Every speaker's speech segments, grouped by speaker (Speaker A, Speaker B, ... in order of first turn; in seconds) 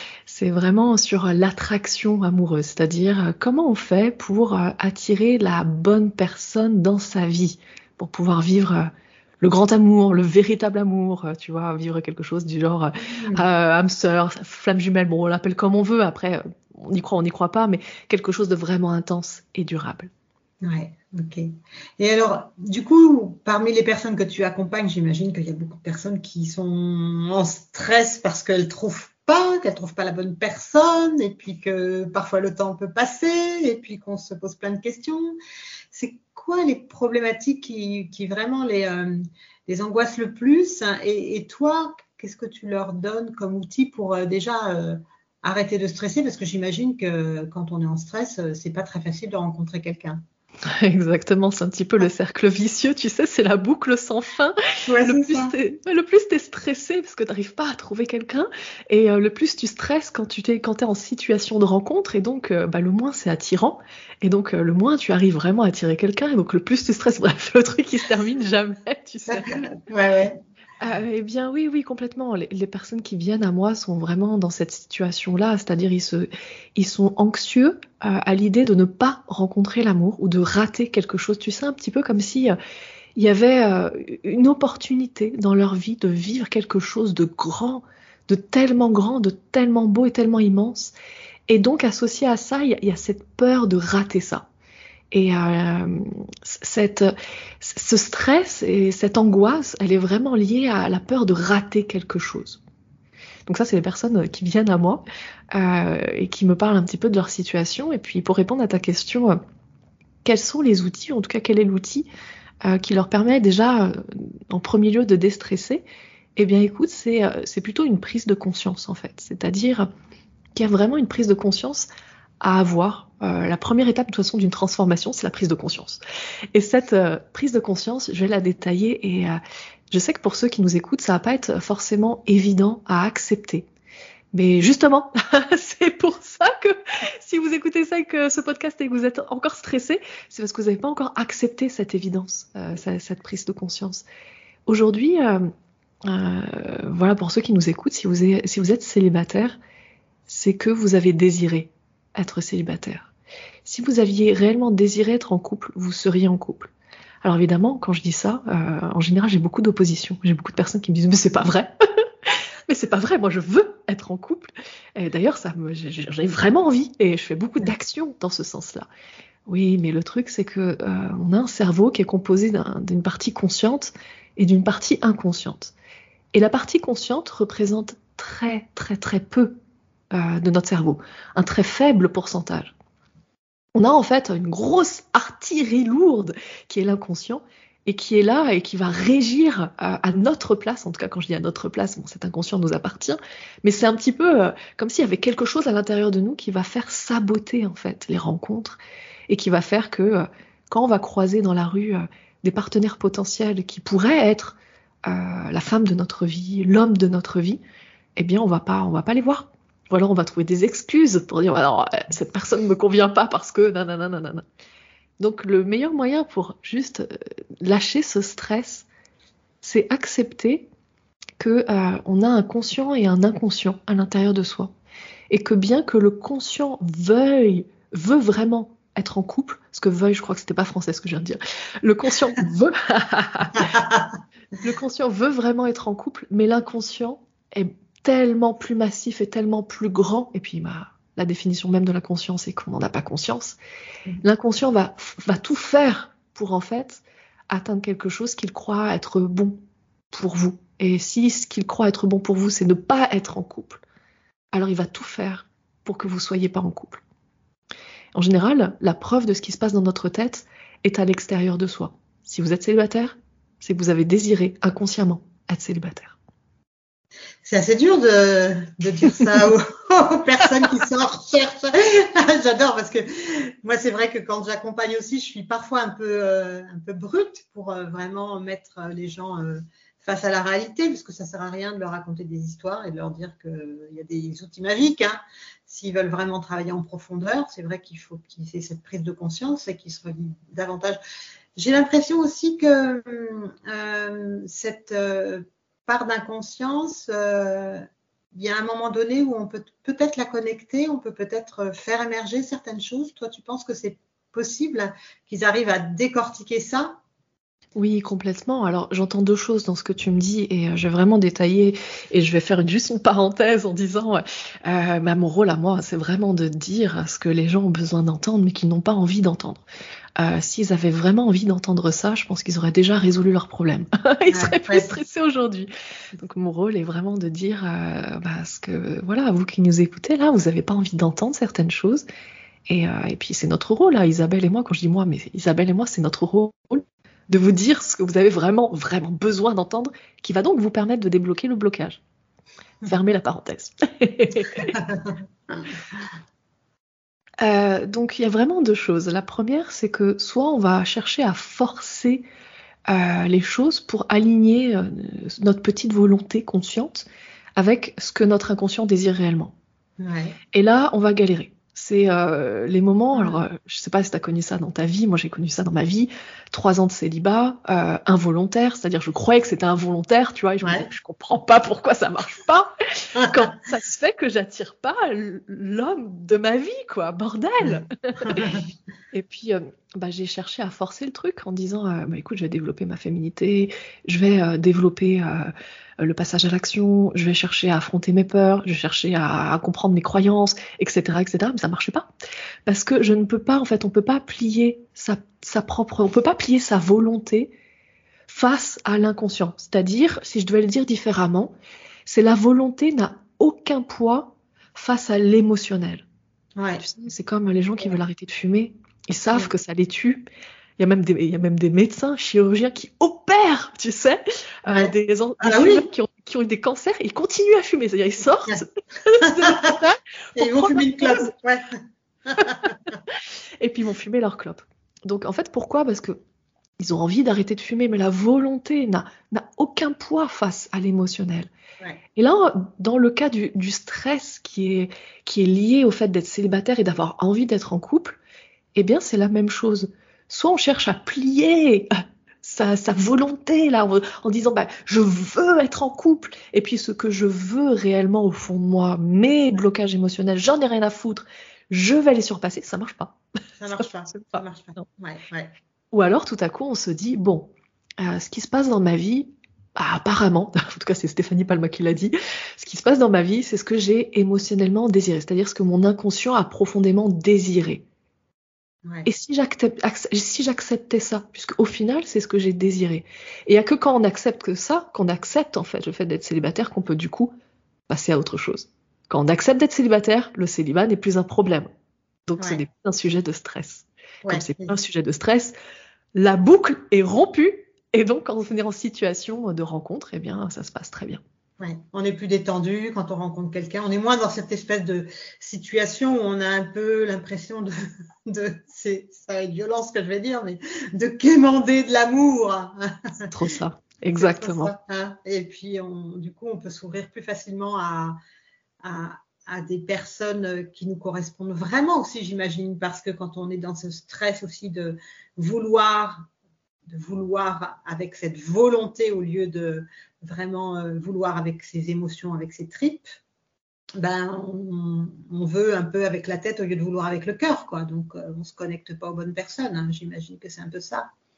Speaker A: 0.2-20.1, 50.6-69.6, 70.8-82.6, 83.2-90.9, 91.5-94.5, 95.1-102.6, 103.5-109.4, 110.2-112.1, 112.6-119.9, 120.5-121.9, 122.4-126.0, 126.5-129.4, 129.9-133.7, 134.3-144.1, 144.7-145.5, 146.0-149.6, 150.3-153.1, 153.6-156.7, 157.2-161.7, 162.2-168.9, 169.5-175.7, 176.3-179.6, 180.1-182.7, 183.7-207.6, 208.2-214.4, 215.2-218.9, 219.6-220.7, 221.4-224.7, 225.3-233.7, 234.6-243.6, 244.2-249.6, 250.1-253.8, 254.5-257.0, 258.1-266.1, 307.8-319.6, 320.2-332.1, 332.7-342.0, 342.9-344.7, 347.4-352.2, 352.9-359.5, 360.5-378.5, 379.1-392.1, 392.6-397.5, 398.3-401.5, 402.1-406.1, 406.8-410.2, 410.8-421.3, 423.1-426.2, 426.8-431.5, 432.1-438.2, 438.7-453.2, 453.7-454.4, 455.9-467.8, 469.0-477.3, 477.9-481.7, 482.3-485.5, 486.1-491.2, 503.3-504.7
Speaker B: 13.1-13.4, 20.6-35.4, 35.9-50.2, 54.9-55.5, 69.3-70.4, 233.6-234.1, 267.4-291.0, 291.6-297.8, 298.3-307.0, 324.3-325.0, 344.7-345.6, 360.0-360.4, 363.1-363.4, 370.6-370.9, 373.2-373.5, 377.6-378.6, 406.6-406.8, 414.7-415.9, 419.2-419.8, 420.4-423.0, 453.6-455.5, 484.2-484.7, 491.6-497.7, 498.2-503.3, 504.1-508.2, 508.8-516.2, 516.9-523.1, 524.0-531.1